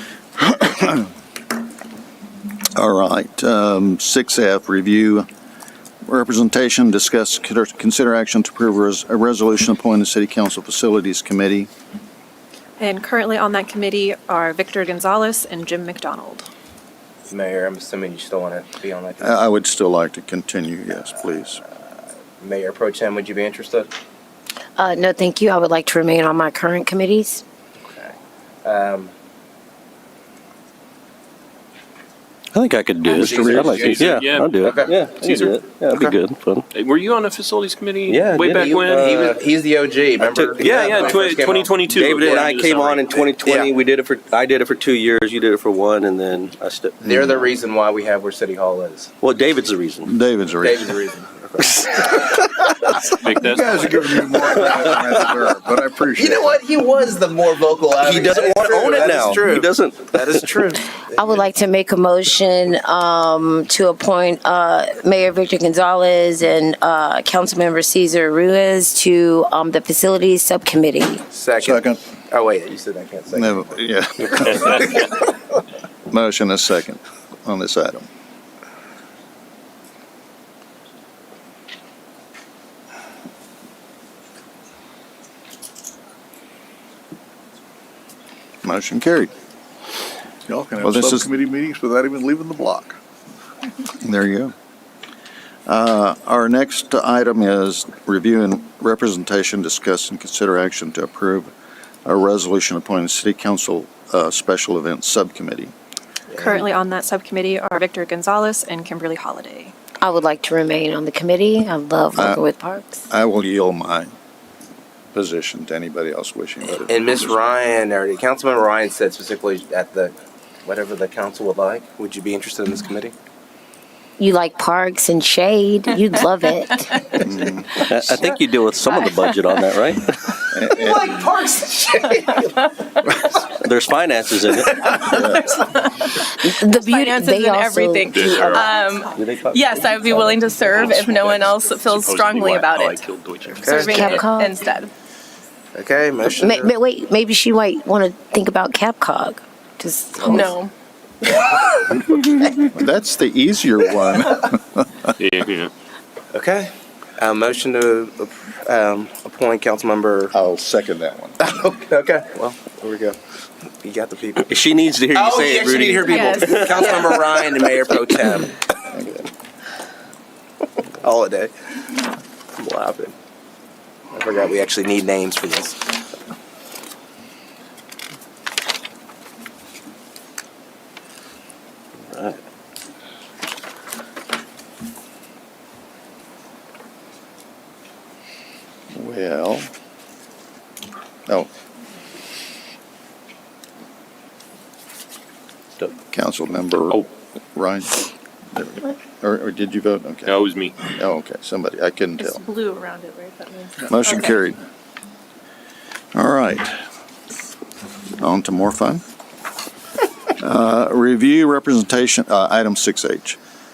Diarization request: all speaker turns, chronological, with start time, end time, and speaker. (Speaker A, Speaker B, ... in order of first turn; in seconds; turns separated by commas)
Speaker A: 0.4-1.1, Speaker A: 2.7-5.3, Speaker A: 6.0-11.7, Speaker B: 12.8-16.5, Speaker C: 17.3-19.4, Speaker A: 19.2-21.6, Speaker C: 22.4-23.9, Speaker D: 24.8-27.4, Speaker C: 27.8-29.1, Speaker E: 32.5-36.6, Speaker C: 33.1-35.1, Speaker F: 33.1-34.6, Speaker F: 35.1-35.6, Speaker F: 36.7-39.1, Speaker E: 38.1-39.4, Speaker C: 38.5-43.7, Speaker E: 40.2-41.1, Speaker F: 40.6-43.1, Speaker E: 41.9-47.1, Speaker C: 47.0-49.1, Speaker E: 49.2-50.1, Speaker A: 50.0-50.9, Speaker C: 50.6-51.9, Speaker E: 51.8-52.4, Speaker F: 53.2-54.1, Speaker A: 53.4-56.4, Speaker G: 53.5-55.2, Speaker C: 56.1-61.4, Speaker E: 58.0-60.5, Speaker D: 61.1-71.2, Speaker C: 71.3-73.7, Speaker A: 71.6-72.0, Speaker A: 73.3-75.1, Speaker C: 74.5-75.0, Speaker F: 74.5-74.8, Speaker A: 76.1-78.1, Speaker A: 88.6-89.3, Speaker G: 90.5-93.0, Speaker A: 90.7-91.3, Speaker A: 94.0-94.5, Speaker A: 95.7-101.5, Speaker A: 102.0-105.7, Speaker C: 106.3-106.6, Speaker B: 106.4-109.7, Speaker D: 110.0-113.1, Speaker A: 112.1-112.4, Speaker A: 113.1-114.1, Speaker A: 115.1-117.4, Speaker C: 116.8-123.1, Speaker D: 124.2-127.2, Speaker A: 127.2-128.2, Speaker E: 127.9-130.4, Speaker A: 130.5-131.1, Speaker C: 130.7-133.1, Speaker E: 133.6-134.8, Speaker C: 134.6-135.2, Speaker A: 135.1-135.6, Speaker D: 136.4-138.7, Speaker H: 136.7-143.0, Speaker F: 138.1-138.7, Speaker E: 139.1-140.3, Speaker F: 140.6-144.2, Speaker C: 143.6-144.2, Speaker H: 143.7-144.9, Speaker D: 143.9-144.6, Speaker C: 145.7-146.7, Speaker D: 146.3-150.5, Speaker C: 150.2-150.5, Speaker H: 150.3-150.7, Speaker C: 151.5-152.0, Speaker A: 151.9-155.1, Speaker F: 155.2-155.7, Speaker C: 156.3-160.3, Speaker A: 160.3-161.4, Speaker C: 161.4-163.2, Speaker C: 163.8-164.6, Speaker E: 164.4-167.3, Speaker C: 165.1-168.6, Speaker H: 166.1-167.1, Speaker A: 168.9-169.3, Speaker C: 171.0-172.1, Speaker C: 172.6-173.1, Speaker C: 174.1-175.8, Speaker E: 182.1-182.4, Speaker A: 188.9-189.7, Speaker A: 195.8-202.4, Speaker F: 200.2-200.8, Speaker H: 202.2-204.1, Speaker A: 203.9-204.6, Speaker A: 206.1-206.8, Speaker A: 208.2-209.0, Speaker A: 210.4-213.4